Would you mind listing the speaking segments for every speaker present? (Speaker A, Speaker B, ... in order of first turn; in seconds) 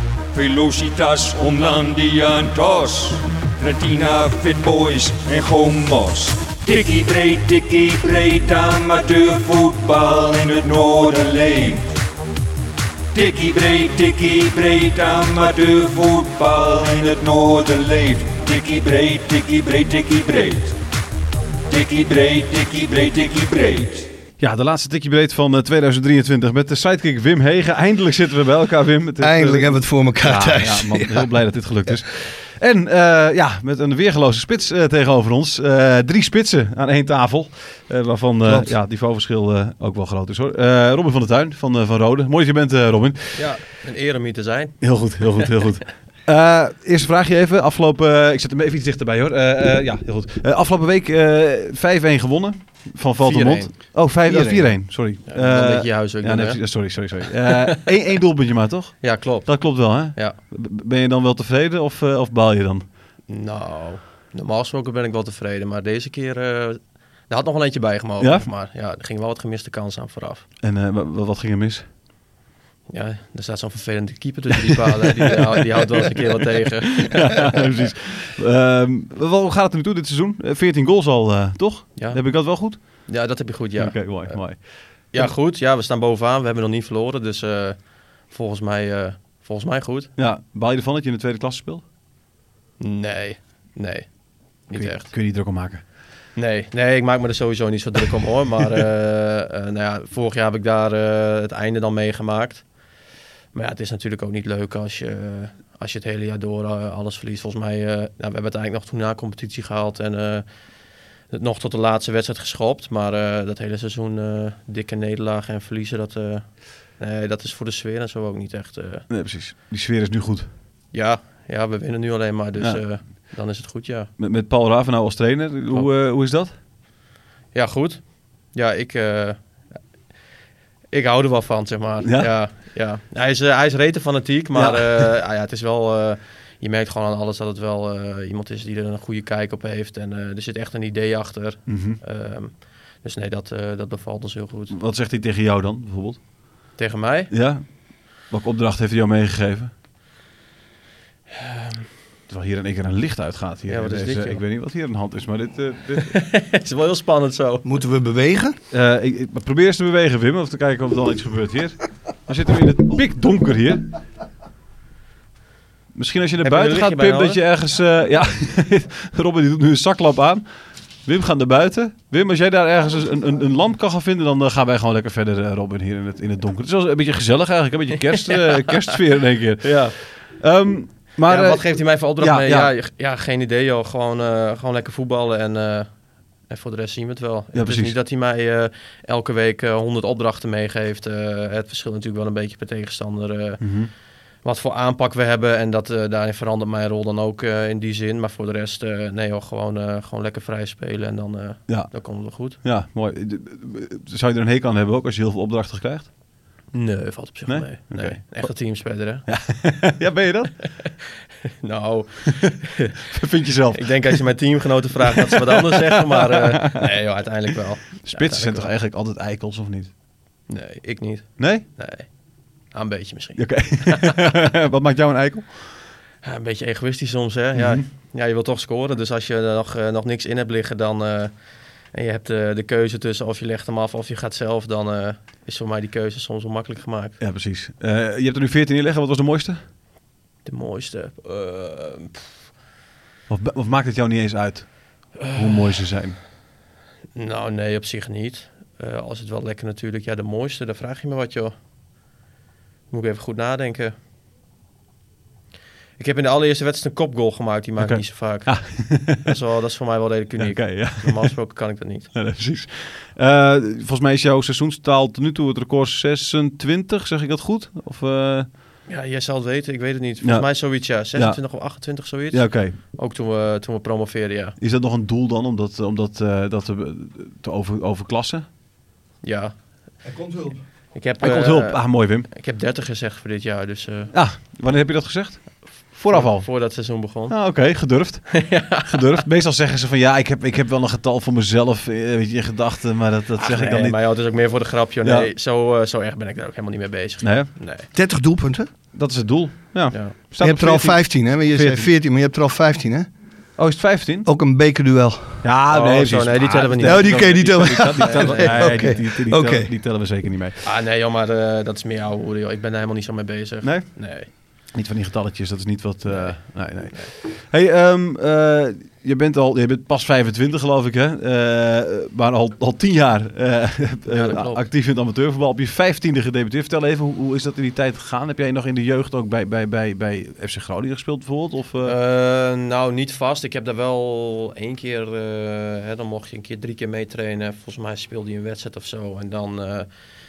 Speaker A: 0.3-11.9, 13.1-20.8, 21.7-24.1
Speaker B: 24.4-43.5, 44.8-62.9, 68.2-68.5, 70.6-71.9, 75.8-76.3, 76.9-85.3, 90.2-91.8, 94.7-95.8, 119.1-120.5, 122.6-123.0, 124.2-126.5, 132.0-132.3, 134.5-135.1, 141.7-142.0, 144.7-146.3, 147.3-149.7, 152.3-156.2, 158.7-163.9, 165.9-182.7, 187.5-187.9, 193.6-193.9, 201.7-206.1, 207.5-210.9, 213.1-214.5, 215.1-216.8, 218.0-219.9, 221.4-221.6, 223.3-225.8, 227.5-227.8, 237.2-239.6, 243.3-246.2, 257.8-259.4, 260.4-261.3, 262.1-268.5, 270.2-272.8, 274.6-278.4, 281.2-282.3, 284.1-294.1, 297.2-297.5, 298.9-301.9, 303.6-304.3, 305.4-310.6, 313.6-331.9
Speaker C: 29.2-31.4, 38.4-38.7, 157.6-158.6, 280.0-280.6, 297.9-298.7, 300.4-303.1, 304.2-305.4, 306.8-309.7
Speaker D: 43.3-45.6, 53.2-57.5, 59.0-60.4, 63.3-70.4, 72.9-77.5, 82.0-90.1, 92.8-95.1, 96.3-102.7, 103.5-110.5, 111.3-119.0, 120.9-124.1, 127.5-129.6, 130.9-144.8, 146.8-147.3, 151.3-151.9, 153.7-154.4, 155.9-157.7, 166.4-167.4, 178.1-178.8, 179.6-179.9, 181.2-202.6, 206.7-209.5, 211.6-212.9, 213.7-218.7, 220.5-224.2, 226.2-237.2, 240.4-242.3, 245.2-245.8, 247.1-251.5, 252.9-253.9, 256.0-262.1, 268.9-274.6, 279.2-279.6, 280.9-284.1, 286.1-287.6, 288.3-289.2, 293.4-297.9, 299.9-300.1, 305.7-309.0, 310.6-314.3, 316.0-317.1, 324.1-324.7, 331.8-339.9